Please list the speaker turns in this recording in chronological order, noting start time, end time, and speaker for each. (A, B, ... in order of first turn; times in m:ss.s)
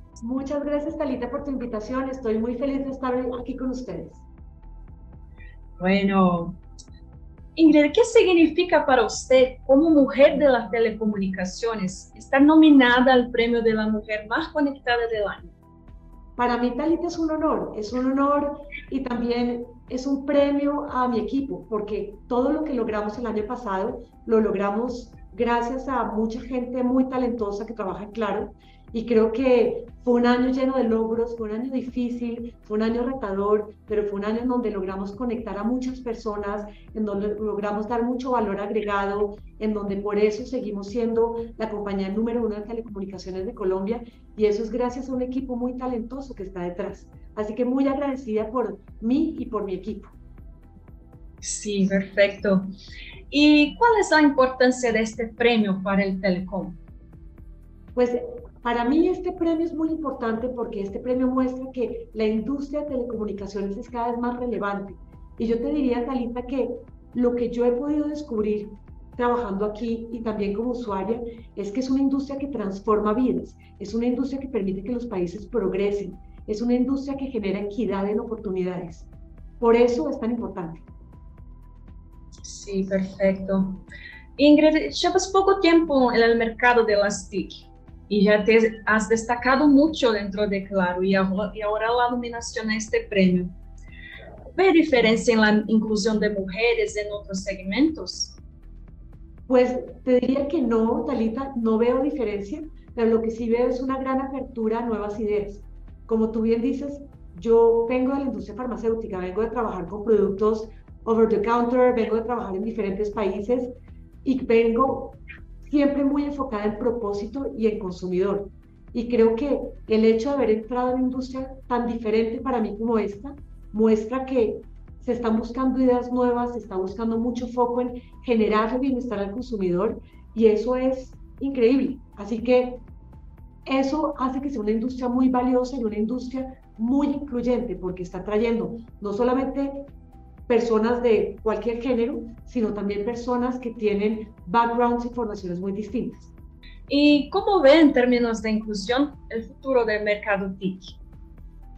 0:00.2-0:04.2 A
0:05.8-0:06.6 B
0:07.6-0:15.6 B
0:16.4-0:50.1 A
0:51.4-0:52.7 B
0:53.3-0:56.8 B
0:58.0-1:19.1 A
1:19.6-1:20.8 A
1:22.4-1:23.8 B
1:24.4-1:33.6 B
1:34.6-1:38.4 B
1:39.5-1:53.7 A
1:54.2-2:12.8 A
2:13.7-2:19.9 A
2:20.5-2:26.3 A
2:26.9-2:31.0 B